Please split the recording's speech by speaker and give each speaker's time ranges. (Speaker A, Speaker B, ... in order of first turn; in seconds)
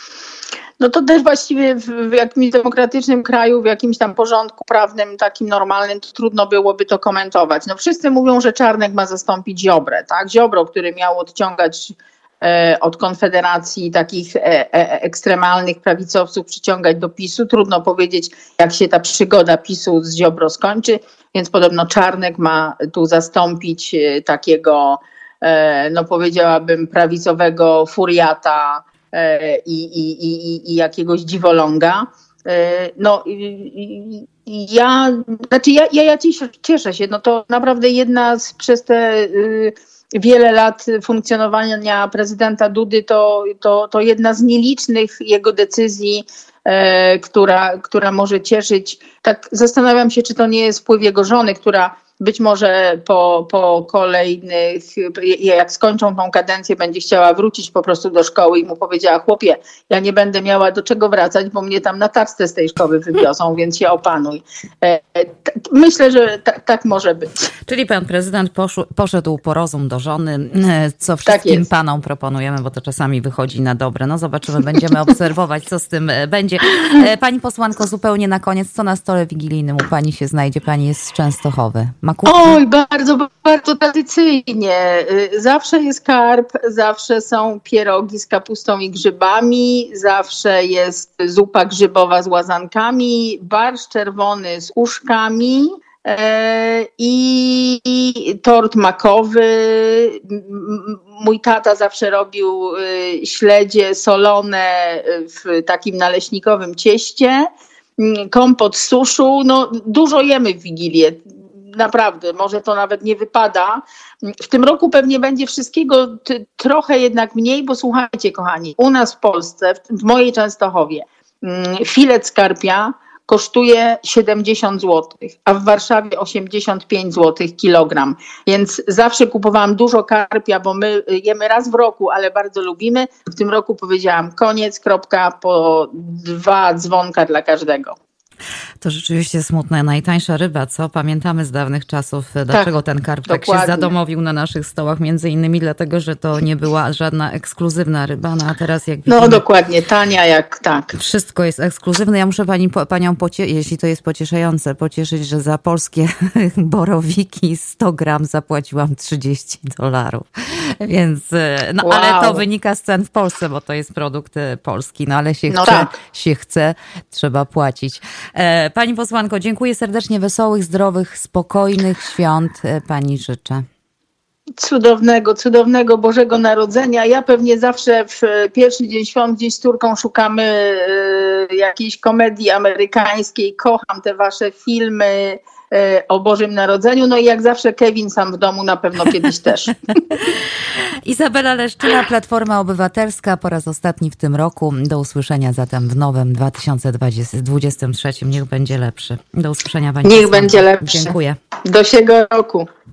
Speaker A: 0.8-67.4, 71.3-71.7, 82.3-138.0, 143.3-143.9, 149.1-150.9, 161.8-162.4, 165.5-165.9, 174.6-189.7, 200.0-202.7
Speaker B: 67.7-82.6, 138.8-149.4, 150.9-173.7, 190.1-190.4, 191.1-201.4